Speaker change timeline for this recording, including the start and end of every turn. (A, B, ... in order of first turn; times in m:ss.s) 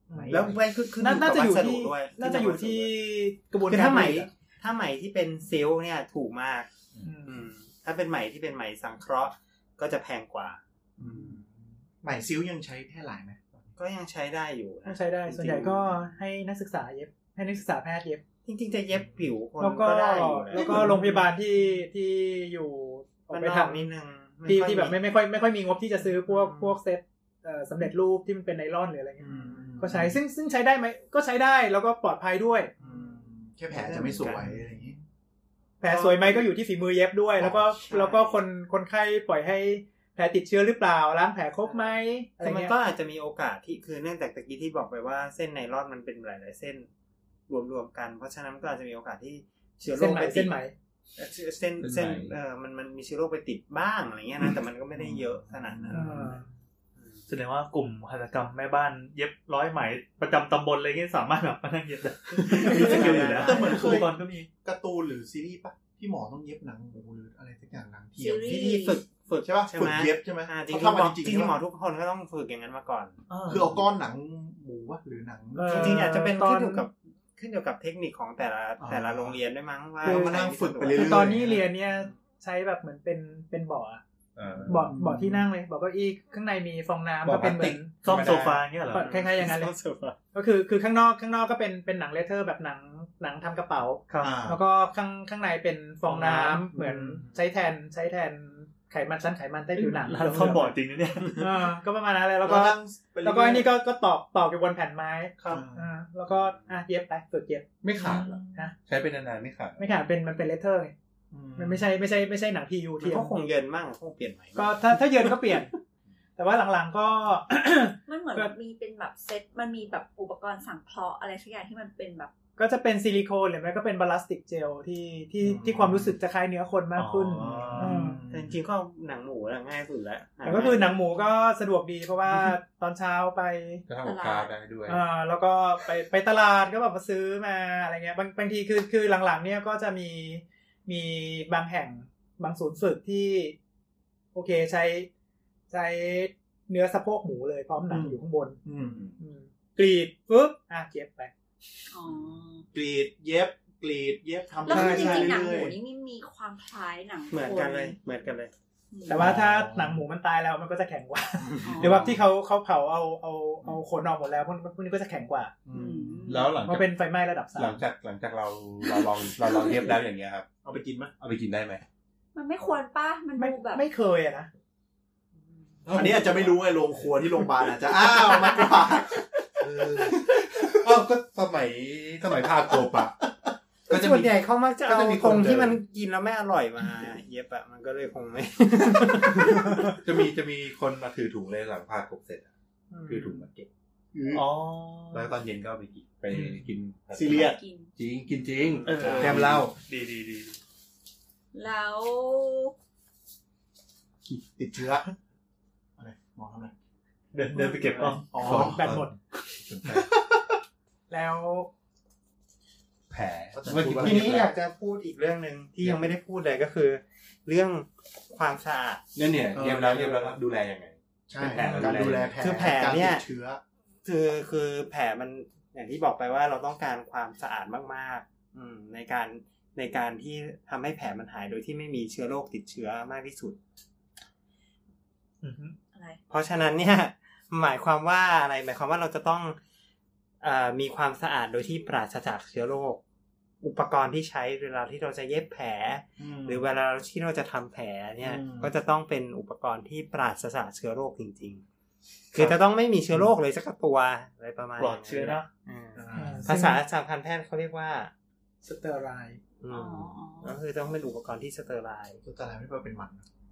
0:00.1-0:00.4 A
0:00.1-0:00.6 B
0:00.3-0:02.9 C
0:01.0-0:04.3 A
0:03.6-0:06.7 C
0:07.0-0:07.4 A
0:07.2-0:11.4 C
0:11.0-0:13.7 B
0:13.8-0:15.8 C
0:14.8-0:18.2 A
0:18.4-0:21.2 C
0:19.6-0:23.8 A
0:20.5-0:21.1 B
0:23.3-0:25.0 C
0:24.4-0:32.7 A
0:26.2-0:26.8 C
0:29.2-0:30.2 B
0:32.8-0:35.0 B
0:32.8-0:33.2 C
0:33.7-0:34.5 C
0:35.8-0:42.7 A
0:35.8-0:36.5 C
0:37.8-0:38.4 C
0:42.4-0:46.9 C
0:47.5-0:50.6 C
0:49.9-0:50.7 A
0:51.2-0:56.4 C
0:51.8-0:52.3 D
0:55.5-0:56.2 B
0:55.9-0:56.4 A
0:57.3-1:04.5 E
1:02.5-1:04.1 C
1:02.5-1:04.1 B
1:04.6-1:08.7 B
1:08.2-1:09.0 F
1:08.4-1:13.2 C
1:09.4-1:11.6 B
1:13.3-1:13.8 E
1:13.5-1:16.0 B
1:15.6-1:16.8 A
1:15.7-1:21.3 C
1:18.8-1:19.4 B
1:20.0-1:21.6 B
1:20.9-1:24.0 A
1:24.4-1:24.9 D
1:24.6-1:25.5 B
1:24.6-1:28.0 A
1:27.2-1:28.6 D
1:28.0-1:29.1 E
1:28.9-1:29.7 A
1:28.9-1:30.2 C
1:30.3-1:40.7 A
1:34.1-1:34.4 E
1:34.2-1:34.6 B
1:36.2-1:36.5 C
1:36.2-1:36.6 E
1:36.7-1:37.2 B
1:39.8-1:41.5 E
1:41.4-1:47.7 A
1:42.4-1:43.7 B
1:45.4-1:45.9 B
1:46.3-1:46.6 C
1:47.8-1:49.8 D
1:48.4-1:48.7 A
1:49.8-1:50.9 A
1:51.3-1:51.9 B
1:51.6-1:53.4 A
1:53.0-1:55.3 C
1:54.6-1:55.7 A
1:56.4-1:58.5 A
1:58.1-2:02.3 F
2:02.6-2:08.2 A
2:05.4-2:06.2 B
2:07.0-2:08.0 E
2:07.5-2:08.6 B
2:08.3-2:11.0 C
2:10.4-2:13.8 A
2:13.9-2:15.0 D
2:14.0-2:14.5 F
2:14.9-2:23.6 A
2:24.3-2:25.1 A
2:25.7-2:28.6 A
2:27.9-2:29.1 B
2:28.8-2:29.2 D
2:29.2-2:31.3 A
2:31.9-2:32.6 F
2:32.7-2:35.8 B
2:34.6-2:38.0 F
2:34.7-2:35.4 A
2:37.3-2:38.5 C
2:38.9-2:39.3 F
2:39.1-2:45.6 A
2:39.2-2:40.0 B
2:41.6-2:42.1 F
2:45.6-2:46.4 B
2:45.7-2:46.6 F
2:46.3-2:46.9 D
2:46.6-2:47.8 A
2:47.6-2:50.5 D
2:49.4-2:49.9 F
2:50.6-2:51.1 B
2:51.2-2:51.8 D
2:52.4-2:53.8 F
2:53.4-2:54.5 A
2:55.8-2:56.6 D
2:55.9-3:00.9 B
2:59.7-3:03.2 D
3:02.7-3:03.0 B
3:03.9-3:05.8 D
3:03.9-3:10.0 C
3:09.8-3:12.5 D
3:12.9-3:13.4 C
3:13.1-3:13.7 D
3:14.1-3:14.4 B
3:14.3-3:15.3 E
3:15.1-3:19.7 D
3:17.1-3:17.6 B
3:17.4-3:17.9 F
3:18.4-3:19.4 C
3:18.9-3:20.6 E
3:19.1-3:19.7 B
3:21.5-3:22.7 F
3:24.3-3:25.0 B
3:26.0-3:26.7 B
3:27.3-3:28.3 E
3:27.9-3:29.1 A
3:28.3-3:28.9 B
3:28.4-3:30.1 D
3:29.8-3:30.6 B
3:31.1-3:31.7 A
3:33.1-3:34.5 D
3:33.5-3:34.5 B
3:33.8-3:39.0 C
3:35.8-3:36.1 D
3:39.2-3:42.4 D
3:39.5-3:40.4 B
3:41.3-3:43.6 B
3:41.6-3:43.2 C
3:44.0-3:53.6 C
3:55.4-3:55.8 E
3:55.9-3:56.2 F
3:56.3-3:59.6 C
4:00.4-4:03.0 C
4:03.6-4:11.6 C
4:06.2-4:06.6 B
4:08.2-4:08.7 B
4:12.3-4:18.1 C
4:14.8-4:15.5 E
4:16.0-4:16.6 B
4:16.1-4:16.8 A
4:18.6-4:19.4 A
4:19.7-4:20.6 F
4:20.4-4:22.2 C
4:22.2-4:23.3 B